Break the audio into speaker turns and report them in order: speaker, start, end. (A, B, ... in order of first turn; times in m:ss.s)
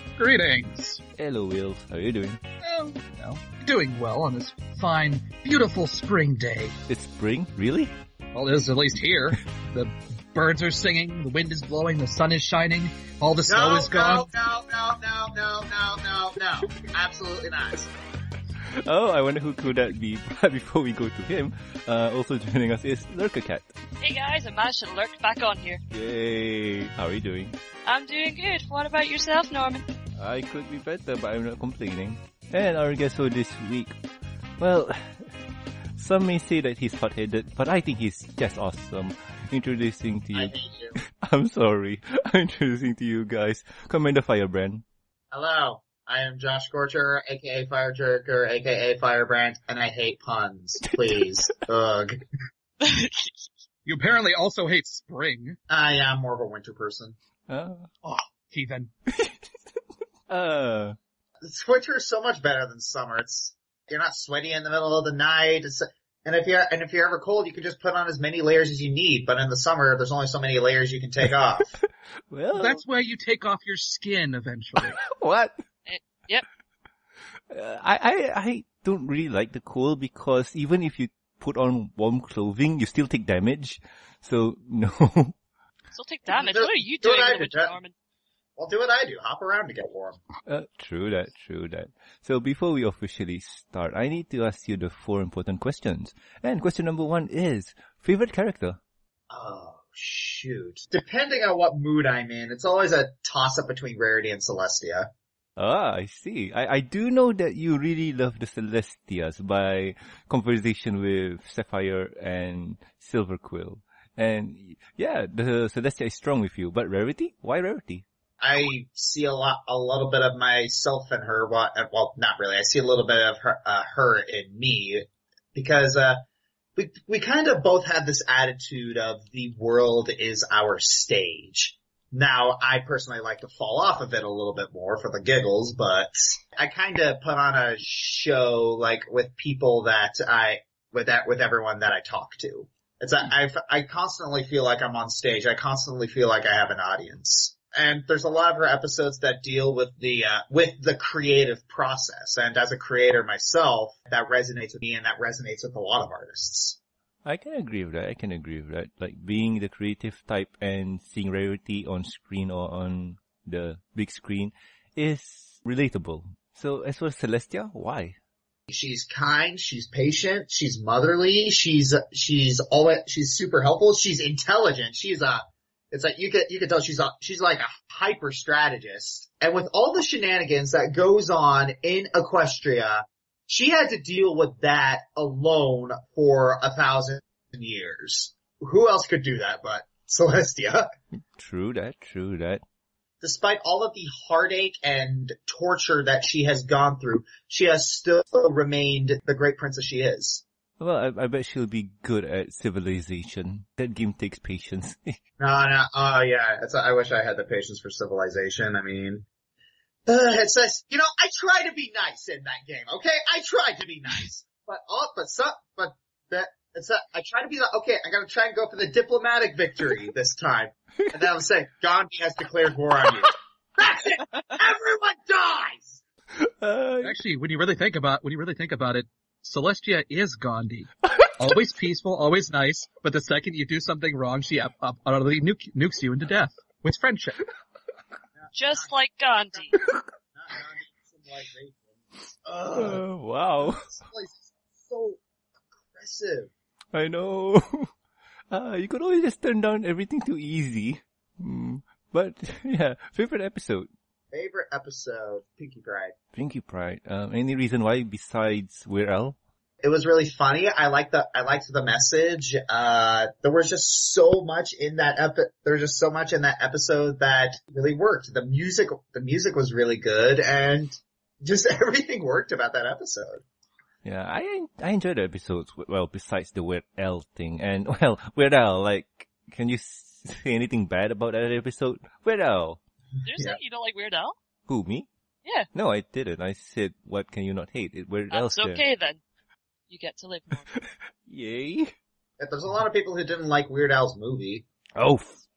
0:00.2-0:01.0 A
0:01.1-0:02.4 B
0:02.6-0:06.8 A
0:06.9-0:07.9 B
0:08.3-0:14.3 A
0:13.4-0:17.9 C
0:18.6-0:23.8 B
0:24.0-0:25.8 D
0:25.9-0:27.5 B
0:27.8-0:29.8 D
0:30.2-0:34.0 B
0:34.6-0:35.3 B
0:36.0-0:44.8 B
0:40.3-0:41.0 C
0:45.3-0:52.2 C
0:52.8-0:53.3 D
0:53.8-0:55.6 A
0:55.7-0:57.1 C
0:57.5-0:57.9 B
0:58.0-0:58.9 A
0:59.1-0:59.5 B
1:00.3-1:01.0 B
1:01.4-1:11.7 C
1:12.3-1:12.8 B
1:12.5-1:15.0 A
1:14.8-1:15.6 B
1:15.8-1:16.4 D
1:17.5-1:25.4 B
1:25.9-1:27.9 D
1:26.3-1:27.7 C
1:28.6-1:30.2 C
1:30.4-1:38.8 B
1:39.3-1:45.1 C
1:45.6-1:58.0 B
1:58.4-2:06.2 C
2:06.8-2:36.8 C
2:37.2-2:48.2 B
2:48.7-3:10.9 C
3:11.4-3:12.6 B
3:13.2-3:20.4 C
3:20.8-3:25.2 B
3:25.4-3:29.2 C
3:30.0-3:46.0 C
3:46.3-3:47.2 B
3:47.0-3:57.4 A
3:58.4-3:58.9 C
3:58.5-3:59.8 D
3:59.5-3:59.8 C
4:00.3-4:03.0 C
4:02.7-4:03.9 B
4:03.7-4:05.2 C
4:05.9-4:06.5 C
4:06.9-4:07.9 B
4:08.5-4:13.9 B
4:14.3-4:16.1 C
4:16.3-4:19.4 B
4:19.8-4:33.4 C
4:34.0-4:42.8 B
4:43.2-4:44.4 D
4:44.7-4:45.1 B
4:45.7-4:48.8 B
4:48.3-4:49.2 D
4:49.9-4:50.9 D
4:51.2-4:51.9 B
4:52.4-4:54.6 C
4:55.0-4:55.4 B